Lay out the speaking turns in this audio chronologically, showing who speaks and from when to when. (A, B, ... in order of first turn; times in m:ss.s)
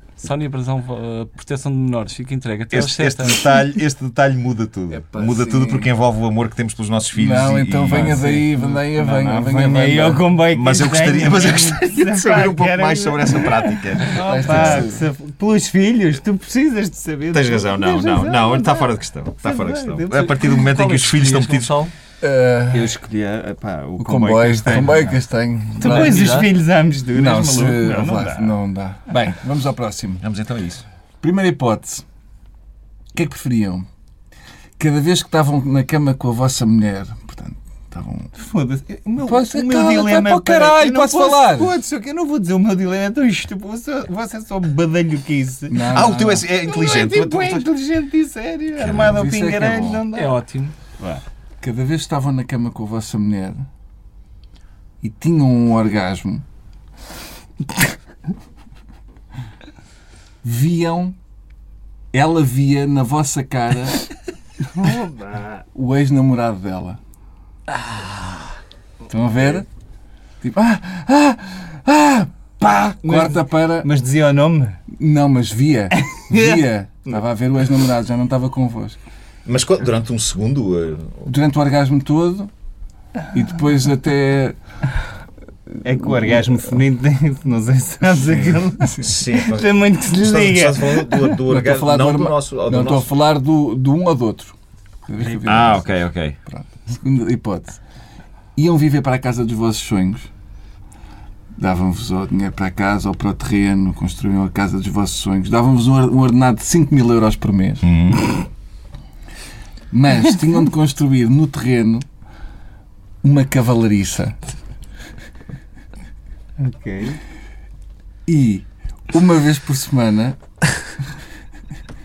0:00.2-0:03.5 A
0:02.7-0:08.3 B
0:04.9-0:05.9 C
0:07.1-0:10.2 C
0:07.9-0:20.3 D
0:10.6-0:14.8 B
0:14.2-0:15.1 C
0:17.3-0:21.7 B
0:20.1-0:21.9 A
0:22.2-0:23.0 C
0:22.7-0:25.2 D
0:24.0-0:26.2 C
0:25.8-0:28.5 D
0:25.8-0:26.5 A
0:27.1-0:30.2 C
0:30.2-0:30.8 B
0:31.2-0:32.0 C
0:33.1-0:33.9 C
0:34.8-0:38.3 C
0:38.4-0:45.9 D
0:39.2-0:41.7 C
0:45.7-0:46.4 C
0:45.9-0:47.6 B
0:46.5-0:50.4 D
0:48.8-0:49.3 B
0:49.0-0:50.0 C
0:50.1-0:50.8 A
0:51.6-0:53.6 C
0:55.0-0:56.4 C
1:00.4-1:01.2 C
1:02.1-1:04.1 C
1:04.7-1:05.6 D
1:05.8-1:07.0 C
1:09.1-1:09.7 C
1:10.4-1:13.9 C
1:13.0-1:14.8 D
1:14.9-1:19.0 C
1:16.2-1:17.2 D
1:19.5-1:21.2 B
1:21.2-1:22.5 C
1:23.3-1:24.6 C
1:25.8-1:31.4 D
1:29.0-1:29.7 B
1:30.3-1:33.1 B
1:31.4-1:34.6 C
1:35.1-1:37.8 C
1:35.5-1:36.4 B
1:38.6-1:40.3 C
1:41.6-1:47.9 C
1:47.8-1:48.3 B
1:49.9-1:52.0 C
1:53.2-1:54.4 C
1:56.6-1:57.2 D
1:58.3-2:00.4 C